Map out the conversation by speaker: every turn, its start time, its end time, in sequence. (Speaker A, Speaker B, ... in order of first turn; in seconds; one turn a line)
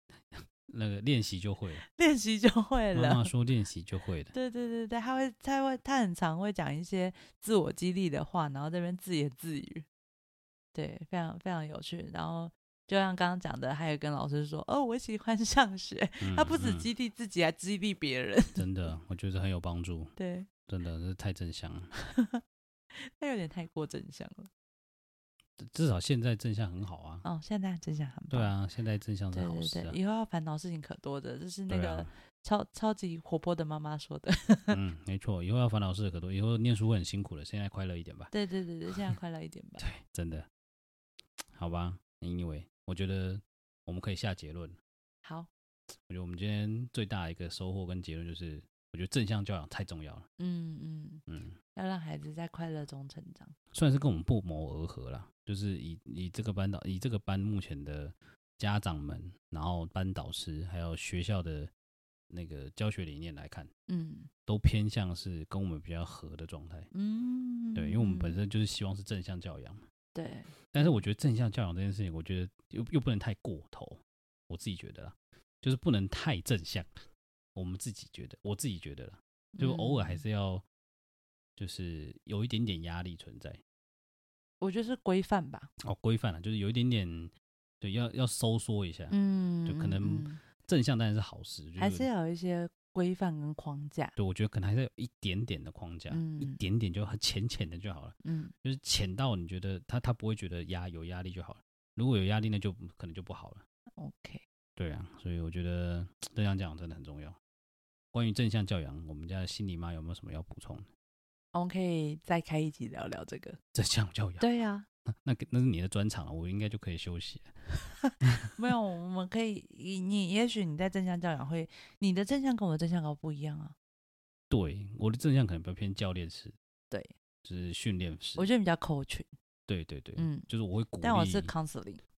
Speaker A: 0.3-1.8
Speaker B: 1.9-3.3
Speaker A: 2.9-4.3
Speaker B: 4.3-9.8
Speaker B: 10.7-18.6
Speaker A: 16.2-16.9
Speaker A: 18.6-20.1
Speaker B: 20.2-20.5
Speaker A: 20.6-21.9
Speaker B: 22.0-24.5
Speaker A: 25.6-27.2
Speaker B: 27.2-28.5
Speaker A: 28.3-29.9
Speaker B: 29.3-34.8
Speaker A: 31.7-32.1
Speaker A: 34.7-38.3
Speaker B: 38.3-39.8
Speaker A: 39.8-40.5
Speaker A: 41.5-44.8
Speaker B: 45.2-45.5
Speaker A: 46.1-50.3
Speaker B: 50.4-51.2
Speaker A: 51.3-51.6
Speaker B: 51.7-53.5
Speaker A: 53.7-61.7
Speaker A: 62.3-63.7
Speaker B: 63.9-64.3
Speaker A: 64.5-66.9
Speaker B: 66.9-68.3
Speaker A: 67.7-69.8
Speaker B: 70.1-71.0
Speaker A: 70.7-76.9
Speaker A: 77.5-80.6
Speaker B: 79.5-80.2
Speaker A: 81.6-83.6
Speaker B: 84.6-85.7
Speaker A: 85.8-89.1
Speaker B: 89.1-90.4
Speaker A: 89.7-92.1
Speaker B: 91.8-94.1
Speaker A: 94.2-103.6
Speaker B: 96.1-96.6
Speaker B: 98.2-98.5
Speaker B: 104.0-104.4
Speaker A: 104.8-107.3
Speaker A: 108.1-110.9
Speaker B: 111.5-113.6
Speaker A: 113.7-114.5
Speaker B: 114.4-114.9
Speaker A: 115.1-117.5
Speaker A: 118.2-118.5
Speaker B: 118.5-123.7
Speaker A: 124.5-126.5
Speaker A: 127.4-128.5
Speaker B: 128.4-129.3
Speaker A: 129.7-131.5
Speaker B: 130.2-130.5
Speaker B: 131.0-132.0